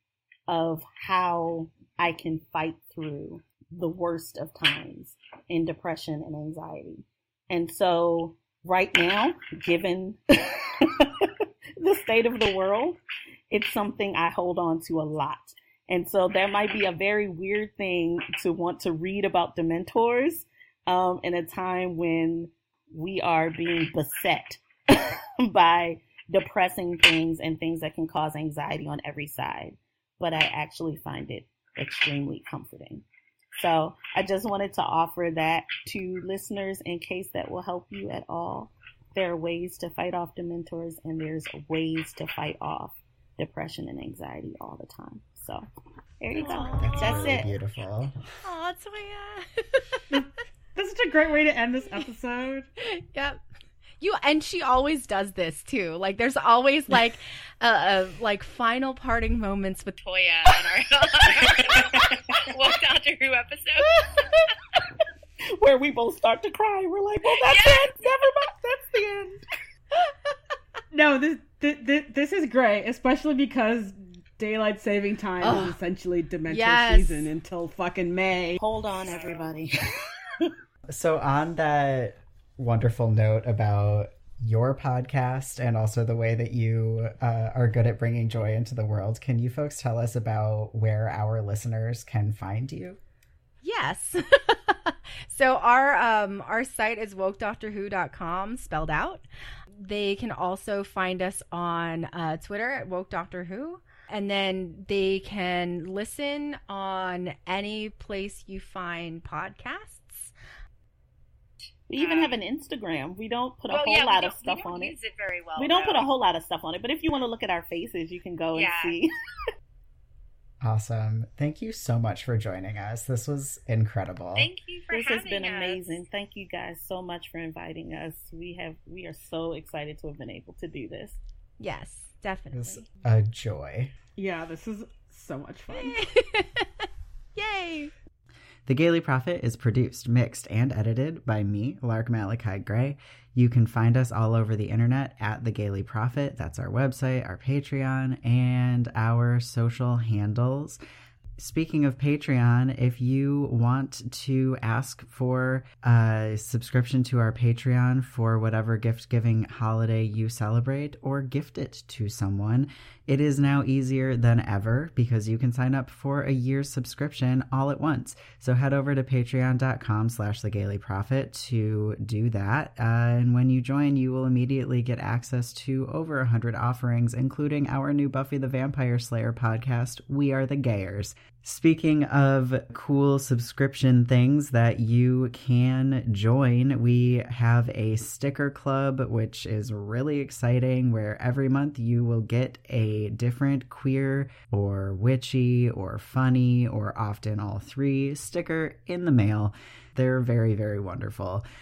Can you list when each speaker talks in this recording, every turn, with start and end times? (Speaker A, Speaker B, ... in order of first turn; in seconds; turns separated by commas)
Speaker A: 0.5-13.0, Speaker A: 13.5-33.0, Speaker A: 33.5-45.6, Speaker A: 46.2-47.5, Speaker B: 46.4-47.2, Speaker C: 46.7-48.1, Speaker D: 48.4-50.0, Speaker E: 50.1-52.7, Speaker D: 52.9-53.4, Speaker D: 54.0-60.0, Speaker B: 60.0-63.9, Speaker A: 64.0-64.4, Speaker A: 65.6-69.4, Speaker B: 67.4-68.2, Speaker E: 70.9-78.6, Speaker D: 75.4-75.8, Speaker D: 76.5-77.3, Speaker A: 78.6-80.5, Speaker C: 80.9-93.0, Speaker D: 93.6-99.2, Speaker D: 99.8-110.3, Speaker A: 111.9-114.9, Speaker B: 112.0-112.4, Speaker B: 113.7-116.1, Speaker A: 115.5-119.1, Speaker B: 118.5-119.0, Speaker C: 120.6-124.5, Speaker B: 124.3-126.0, Speaker A: 124.9-131.2, Speaker D: 131.6-132.8, Speaker C: 132.5-133.9, Speaker E: 134.2-136.0, Speaker D: 135.7-136.7, Speaker D: 137.3-137.9, Speaker C: 138.7-150.8, Speaker C: 151.4-201.4